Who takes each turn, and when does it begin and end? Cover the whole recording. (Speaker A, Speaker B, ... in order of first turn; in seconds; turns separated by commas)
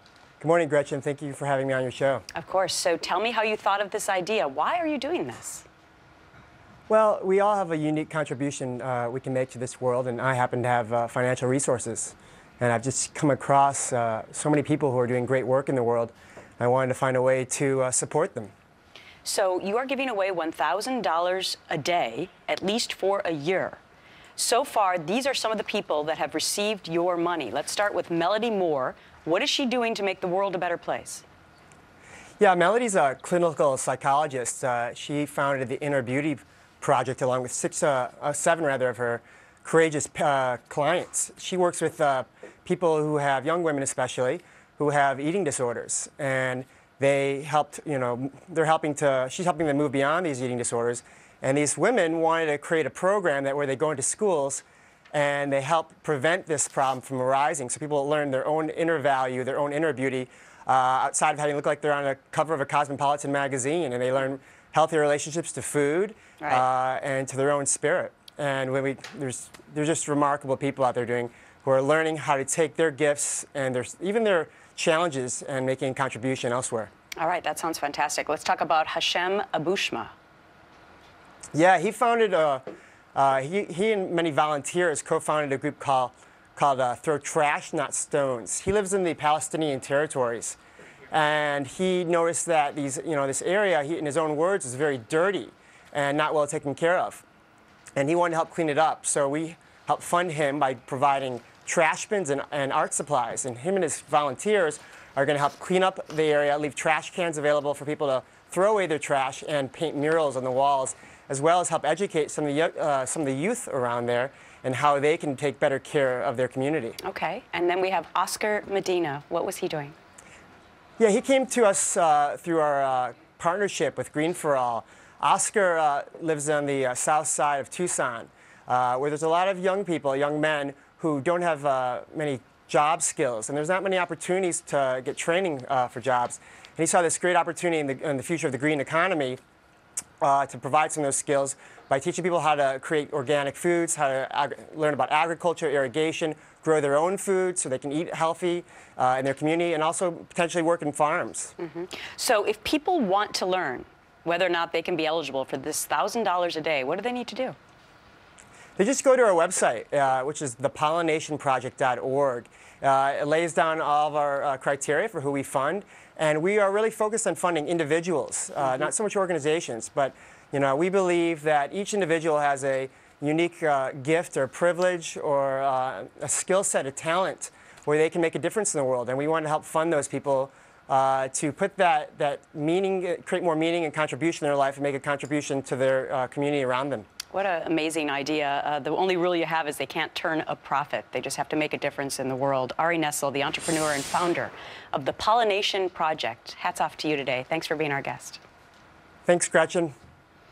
Speaker A: 0.4-2.2, Speaker B: 2.3-5.7, Speaker A: 6.9-18.5, Speaker B: 19.2-23.8, Speaker B: 24.4-31.2, Speaker A: 32.4-76.9, Speaker B: 77.2-80.1, Speaker A: 81.5-82.6, Speaker A: 83.2-90.6, Speaker A: 91.1-97.2, Speaker A: 98.0-117.0, Speaker B: 117.0-120.0, Speaker A: 121.0-139.4, Speaker A: 140.2-151.5, Speaker B: 151.6-157.6, Speaker A: 158.8-187.1, Speaker B: 187.3-198.4, Speaker A: 199.2-199.9